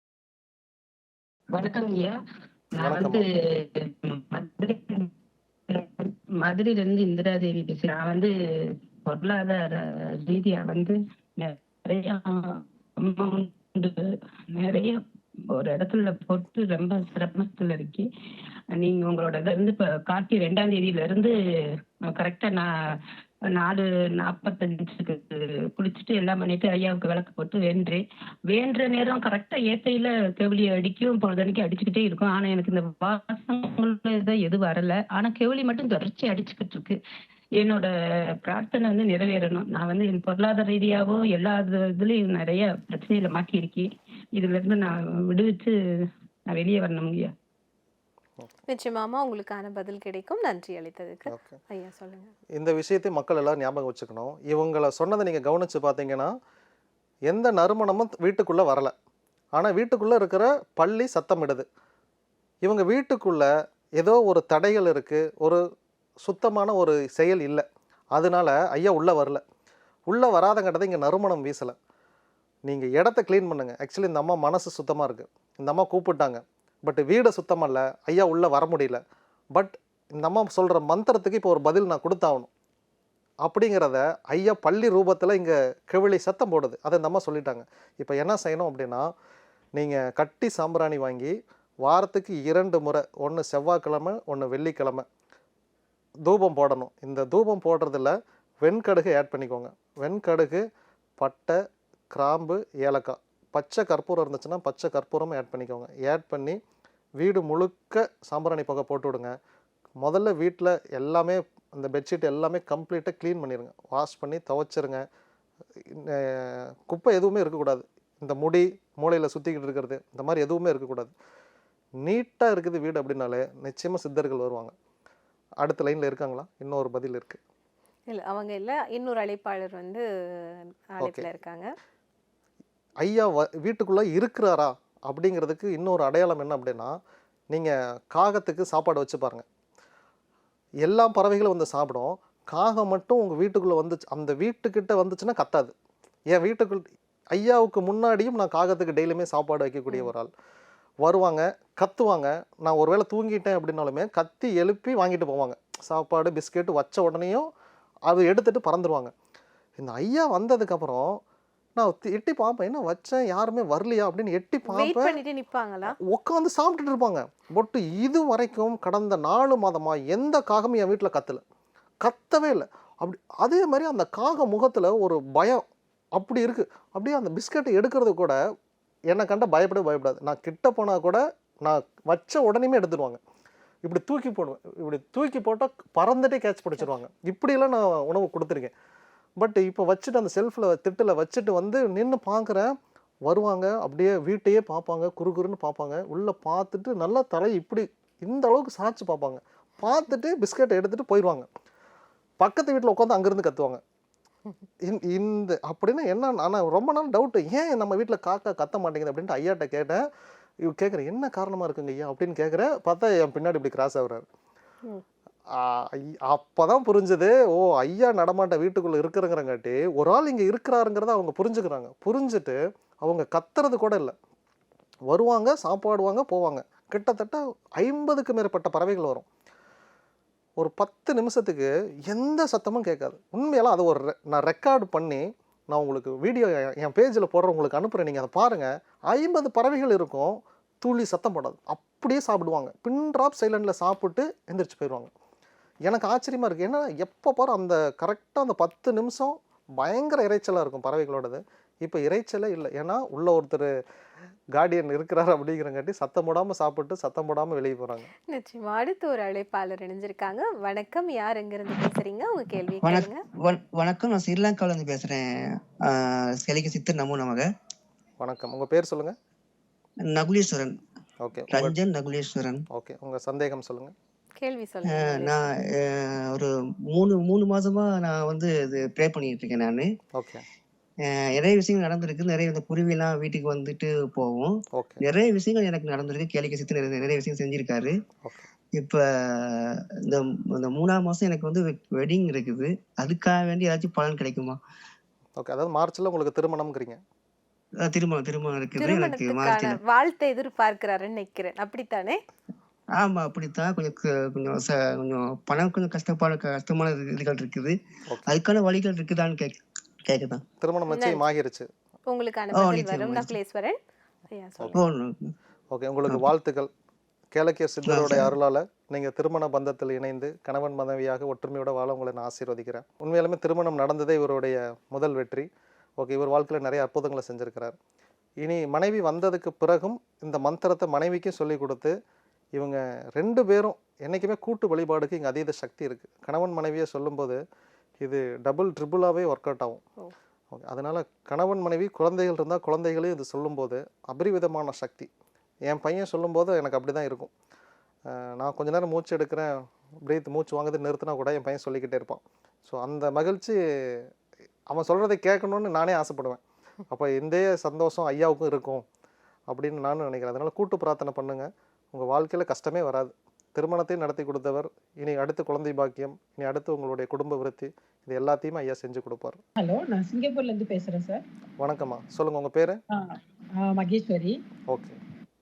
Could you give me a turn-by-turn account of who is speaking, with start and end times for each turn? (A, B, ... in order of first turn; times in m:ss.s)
0:01.5-0:02.2 A
0:02.7-0:05.1 A
0:02.8-0:03.2 B
0:05.7-0:14.0 A
0:14.5-0:18.1 A
0:18.7-0:21.3 A
0:22.0-0:22.7 A
0:23.5-0:37.0 A
0:37.6-0:37.9 A
0:38.4-0:45.7 A
0:46.5-0:47.3 A
0:48.7-0:52.3 C
0:51.3-0:51.6 B
0:52.6-0:56.3 B
0:57.3-0:58.9 B
0:59.6-1:01.7 B
1:02.6-1:05.6 B
1:06.2-1:09.4 B
1:10.1-1:11.8 B
1:12.7-1:19.0 B
1:19.6-1:22.5 B
1:23.4-1:29.0 B
1:29.8-1:31.3 B
1:31.8-1:35.0 B
1:36.2-1:40.6 B
1:41.2-1:41.6 B
1:42.1-1:46.6 B
1:47.2-1:49.3 B
1:50.0-1:55.0 B
1:55.9-2:01.1 B
2:02.0-2:04.7 B
2:05.6-2:07.4 B
2:08.1-2:10.0 C
2:10.9-2:11.7 C
2:11.0-2:11.3 B
2:13.0-2:17.0 B
2:17.5-2:19.4 B
2:20.8-2:25.7 B
2:26.3-2:26.8 B
2:27.3-2:30.3 B
2:31.0-2:37.5 B
2:38.1-2:39.1 B
2:39.8-2:41.2 B
2:41.8-2:45.2 B
2:44.6-2:46.0 C
2:45.9-2:51.4 B
2:52.0-2:55.6 B
2:56.2-2:58.4 B
2:59.1-3:03.2 B
3:03.8-3:08.7 B
3:09.4-3:12.7 B
3:13.3-3:21.5 B
3:22.4-3:23.8 B
3:24.9-3:30.0 B
3:30.7-3:34.2 B
3:35.6-3:44.2 B
3:45.1-3:49.2 B
3:50.6-4:05.1 B
4:05.8-4:13.7 B
4:14.6-4:18.1 B
4:18.3-4:23.2 C
4:22.8-4:25.2 D
4:25.9-4:27.4 D
4:28.2-4:29.2 B
4:30.1-4:30.8 D
4:31.2-4:31.8 B
4:31.5-4:32.6 D
4:32.7-4:33.9 B
4:34.4-4:35.4 C
4:34.9-4:39.9 D
4:40.2-4:40.4 B
4:41.1-4:47.9 D
4:44.7-4:45.0 B
4:48.8-4:54.6 D
4:55.4-4:57.0 B
4:57.8-4:59.8 D
4:58.8-5:02.2 C
5:03.0-5:10.4 D
5:10.6-5:11.7 B
5:10.9-5:11.3 C
5:12.1-5:13.8 C
5:12.5-5:13.4 D
5:14.3-5:14.8 C
5:14.7-5:15.3 D
5:15.7-5:16.7 B
5:17.4-5:25.5 B
5:17.8-5:18.3 D
5:26.0-5:27.8 B
5:28.4-5:31.9 B
5:32.6-5:37.4 B
5:38.0-5:39.8 B
5:40.5-5:45.1 B
5:45.7-5:47.3 B
5:48.1-5:49.5 B
5:50.0-5:54.1 B
5:54.7-5:56.4 B
5:56.9-5:58.8 B
5:59.5-6:09.4 B
6:09.6-6:11.2 E
6:11.6-6:12.8 B
6:12.9-6:14.4 E
6:14.7-6:15.0 B